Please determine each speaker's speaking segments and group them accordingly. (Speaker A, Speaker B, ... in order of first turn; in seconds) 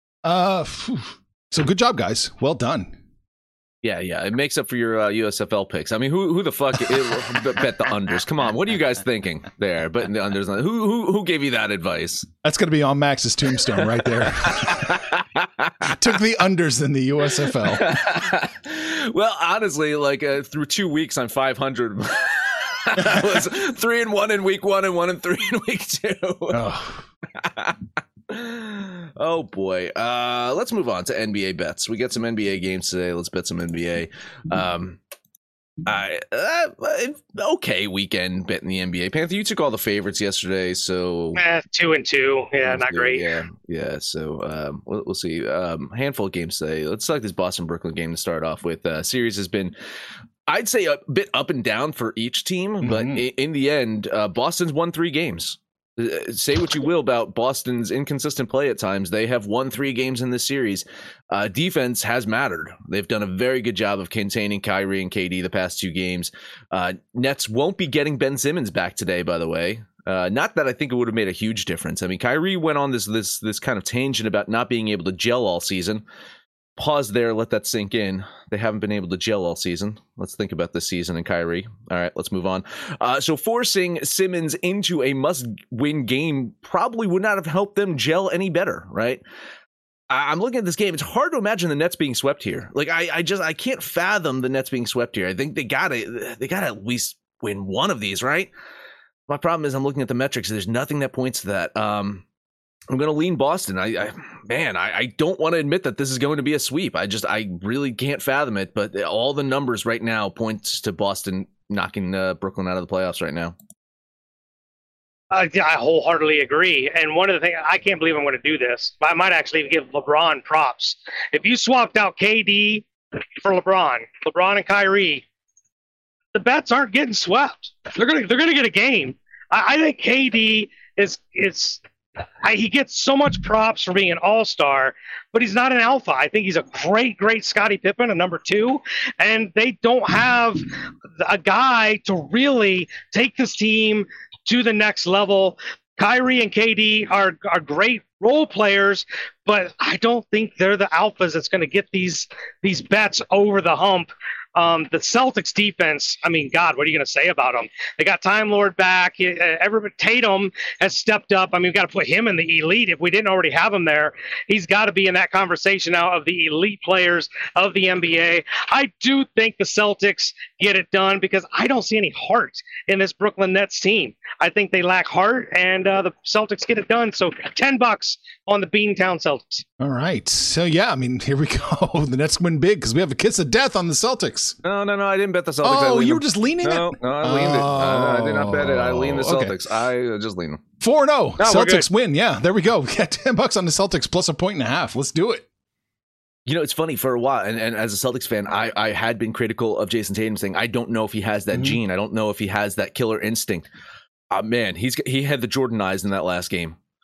Speaker A: 0.2-3.0, 12.4-15.0, 15.8-18.0, 26.5-27.0, 52.8-53.2, 179.8-184.6, 185.6-189.6, 190.8-195.4
Speaker B: 3.8-12.3, 14.4-15.9, 17.6-26.6, 27.4-35.0, 35.9-41.4, 42.6-49.7, 50.5-76.0, 76.8-89.2, 90.1-98.5, 99.3-102.2, 102.9-113.5, 184.6-190.6, 196.5-203.7, 204.3-206.8
Speaker C: 41.4-43.2, 115.3-122.9, 123.4-125.2, 126.3-131.8, 132.4-140.6, 141.2-179.6, 191.4-191.8